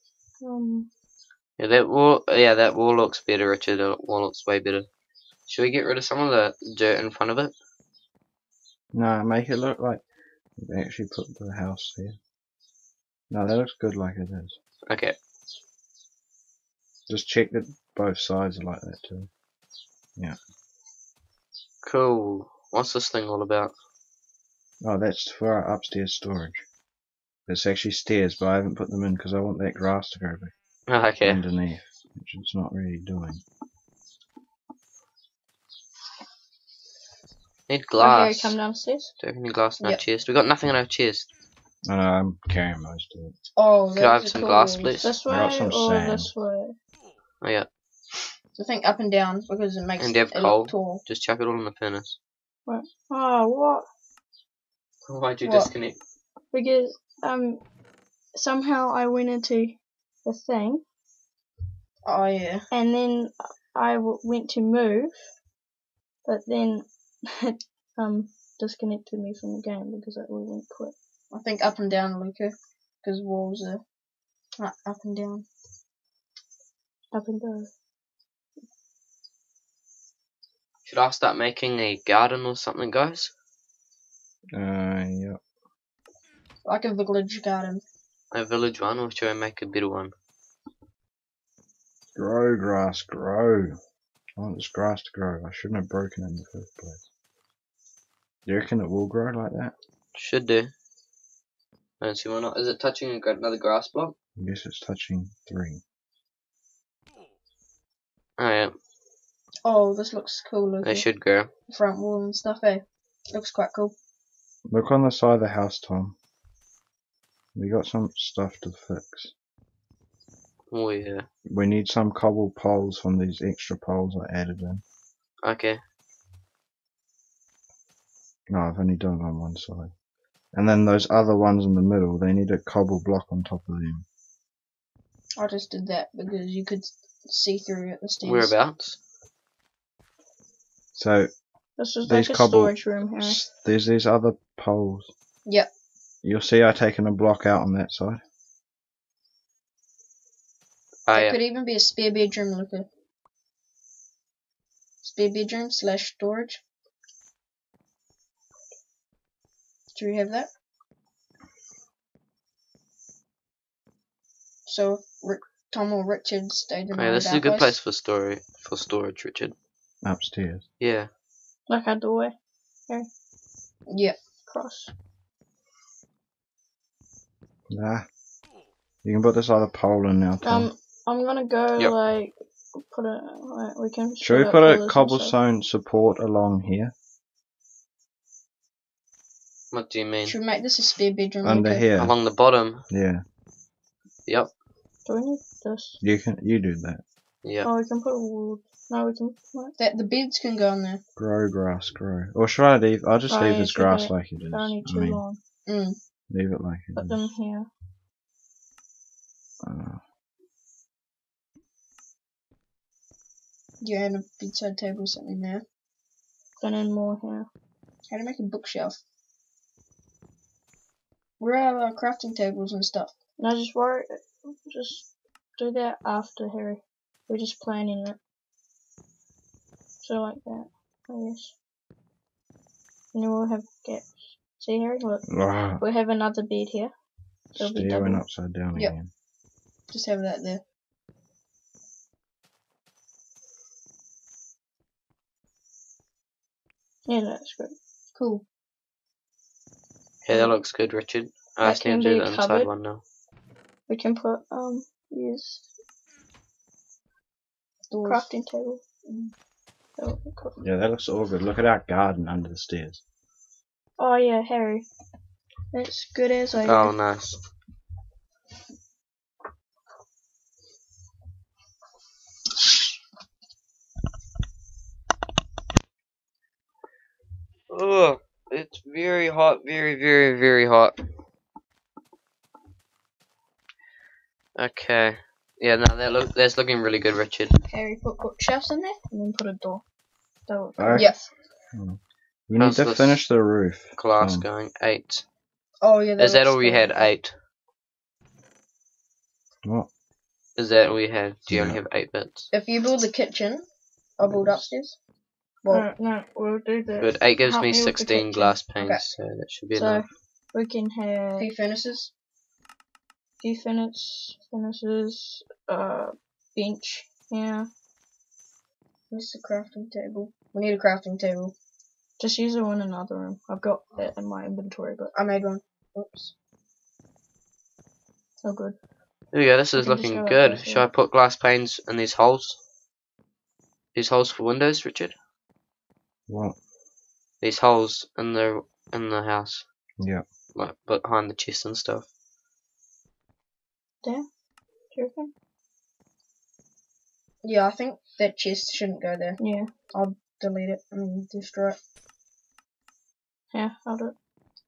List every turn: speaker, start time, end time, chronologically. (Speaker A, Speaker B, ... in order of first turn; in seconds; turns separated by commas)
Speaker A: 0.4-0.9, Speaker B: 1.6-4.9, Speaker B: 5.5-7.5, Speaker C: 8.9-10.0, Speaker C: 10.6-12.2, Speaker C: 13.3-14.6, Speaker B: 14.9-15.2, Speaker C: 17.1-19.3, Speaker B: 21.8-23.7, Speaker C: 24.8-26.6, Speaker C: 27.5-30.5, Speaker B: 30.9-31.4, Speaker C: 31.2-33.4, Speaker B: 37.7-38.6, Speaker A: 38.0-39.1, Speaker B: 39.2-41.3, Speaker C: 41.8-43.3, Speaker D: 43.6-45.1, Speaker B: 44.0-45.1, Speaker A: 45.0-46.8, Speaker C: 45.3-46.3, Speaker B: 47.4-47.7, Speaker D: 48.6-51.0, Speaker B: 50.0-52.2, Speaker A: 52.7-53.9, Speaker B: 55.1-56.0, Speaker D: 55.4-55.7, Speaker A: 56.5-57.6, Speaker A: 58.3-60.8, Speaker D: 62.0-62.7, Speaker A: 62.7-65.3, Speaker A: 66.2-70.9, Speaker D: 71.3-73.8, Speaker D: 74.6-75.5, Speaker A: 77.1-77.7, Speaker B: 80.8-83.3, Speaker C: 84.5-85.4, Speaker D: 86.7-87.8, Speaker B: 88.3-90.1, Speaker C: 92.2-93.8, Speaker C: 94.4-97.0, Speaker C: 98.5-99.7, Speaker B: 100.2-100.7, Speaker B: 102.0-104.2, Speaker C: 104.4-105.8, Speaker B: 108.4-108.7, Speaker D: 109.6-111.1, Speaker B: 110.8-111.5, Speaker D: 111.7-114.0, Speaker C: 114.7-116.2, Speaker C: 117.5-119.3, Speaker B: 120.7-121.3, Speaker C: 121.5-124.8, Speaker B: 125.4-125.8, Speaker C: 128.5-129.9, Speaker C: 130.5-134.1, Speaker D: 135.4-138.5, Speaker B: 138.2-139.0, Speaker C: 140.9-141.3, Speaker A: 141.8-143.4, Speaker C: 142.1-145.1, Speaker C: 146.2-148.2, Speaker B: 151.1-151.4, Speaker D: 151.1-152.9, Speaker D: 155.0-156.6, Speaker D: 159.9-160.5, Speaker D: 164.7-167.8, Speaker B: 166.9-169.5, Speaker C: 170.0-170.6, Speaker B: 170.8-171.1, Speaker A: 171.7-172.3, Speaker D: 173.9-174.2, Speaker A: 174.5-174.9, Speaker C: 177.7-178.1, Speaker C: 179.0-180.7, Speaker A: 180.4-185.3, Speaker C: 184.2-186.9, Speaker B: 189.7-190.4, Speaker D: 190.2-191.9, Speaker C: 191.4-192.2, Speaker B: 192.0-192.8, Speaker C: 192.9-193.2, Speaker B: 194.3-194.5, Speaker A: 195.1-196.0, Speaker C: 196.0-197.0, Speaker B: 197.4-197.7, Speaker A: 197.6-199.8, Speaker D: 199.8-201.0, Speaker C: 201.2-205.2, Speaker A: 203.3-205.4, Speaker D: 205.7-206.0, Speaker C: 206.3-207.3, Speaker A: 207.0-207.7, Speaker C: 209.6-210.0, Speaker D: 213.8-215.6, Speaker A: 216.6-217.5, Speaker D: 218.1-219.0, Speaker D: 221.4-223.1, Speaker A: 223.4-225.1, Speaker A: 225.6-228.2, Speaker A: 230.0-231.5, Speaker A: 233.1-235.3, Speaker C: 235.3-235.8, Speaker A: 235.8-236.9, Speaker A: 237.6-238.2, Speaker C: 237.6-239.1, Speaker D: 239.9-240.6, Speaker A: 247.1-247.8, Speaker D: 248.2-248.4, Speaker B: 250.2-253.0, Speaker A: 251.6-252.7, Speaker A: 253.9-255.6, Speaker D: 257.9-258.3, Speaker A: 258.0-258.8, Speaker D: 259.1-259.3, Speaker A: 260.0-260.6, Speaker C: 260.6-263.0, Speaker A: 264.0-264.9, Speaker A: 265.7-266.9, Speaker B: 266.6-267.4, Speaker B: 277.7-281.0, Speaker B: 284.6-287.5, Speaker D: 287.6-289.0, Speaker A: 289.1-289.8, Speaker A: 290.5-291.2, Speaker C: 290.8-291.1, Speaker D: 291.0-291.3, Speaker C: 291.7-294.5, Speaker B: 292.6-293.3, Speaker B: 294.0-295.2, Speaker D: 295.8-297.1, Speaker B: 296.2-297.3, Speaker B: 300.6-302.5, Speaker C: 301.5-301.8, Speaker D: 302.5-303.6, Speaker D: 304.2-305.0, Speaker A: 305.7-308.6, Speaker B: 307.0-310.1, Speaker A: 309.8-311.5, Speaker D: 311.4-312.1, Speaker A: 313.4-317.7, Speaker D: 319.1-321.6, Speaker A: 322.2-325.1, Speaker D: 325.1-326.3, Speaker A: 328.4-328.8, Speaker B: 329.3-332.6, Speaker A: 329.8-330.9, Speaker B: 333.9-335.1, Speaker C: 336.3-336.6, Speaker B: 337.4-339.6, Speaker C: 340.0-340.2, Speaker B: 340.6-342.1, Speaker A: 344.9-345.3, Speaker D: 347.4-349.4, Speaker A: 349.4-349.7, Speaker D: 349.9-351.8, Speaker A: 353.5-354.1